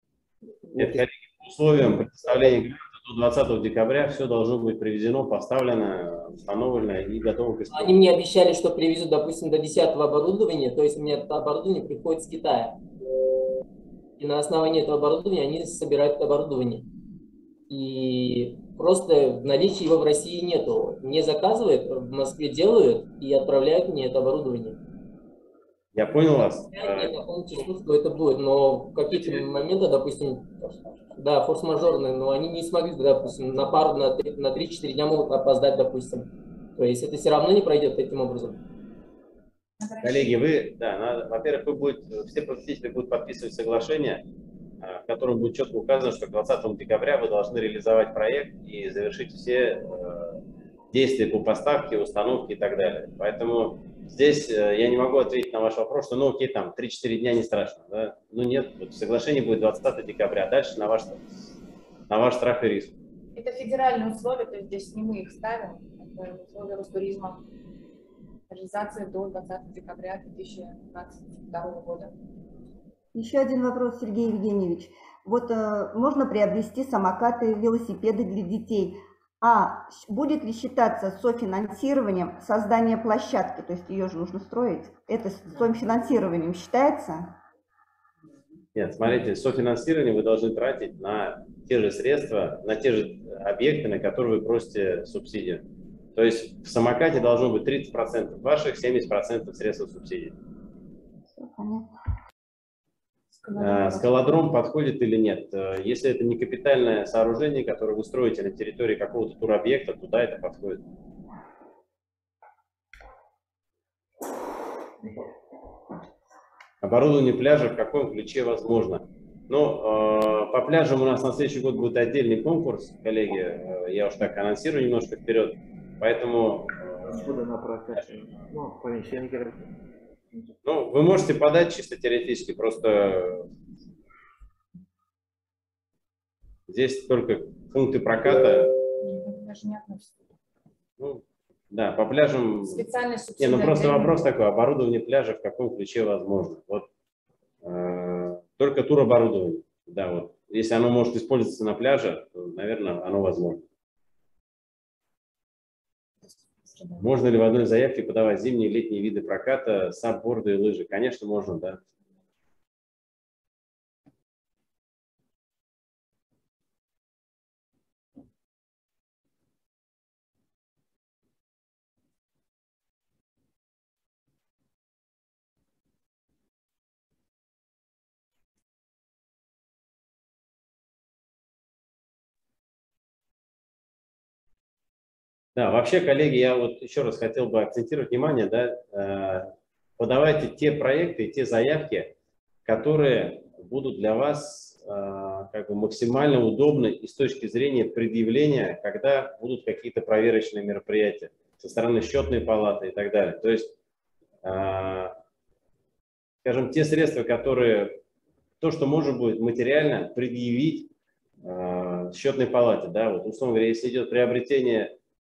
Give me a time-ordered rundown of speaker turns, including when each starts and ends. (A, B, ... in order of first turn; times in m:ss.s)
0:00.8-0:08.0 A
0:07.7-0:12.8 B
0:14.2-0:16.9 B
0:17.7-0:24.8 B
0:25.9-0:27.1 A
0:26.7-0:30.5 B
0:29.1-0:29.4 A
0:31.2-0:38.6 B
0:39.8-0:40.4 C
0:40.0-0:44.2 A
0:44.8-0:50.4 A
0:50.9-1:01.2 A
1:02.1-1:03.0 A
1:03.4-1:07.4 C
1:08.5-1:12.1 C
1:13.1-1:27.3 D
1:28.7-1:35.6 A
1:36.1-1:40.3 A
1:41.3-1:41.9 D
1:43.4-1:44.3 C
1:43.6-1:50.8 A
1:56.8-2:07.3 A
2:07.1-2:09.6 E
2:10.6-2:13.4 A
2:16.7-2:18.7 A
2:19.0-2:20.2 C
2:21.0-2:22.8 A
2:22.7-2:24.2 C
2:23.4-2:26.9 A
2:27.6-2:33.6 A
2:36.6-2:37.0 C
2:37.0-2:41.8 A
3:05.6-3:12.1 A
3:12.6-3:23.7 A
3:24.4-3:25.2 A
3:26.4-3:28.0 A
3:28.6-3:30.9 A
3:31.4-3:34.9 A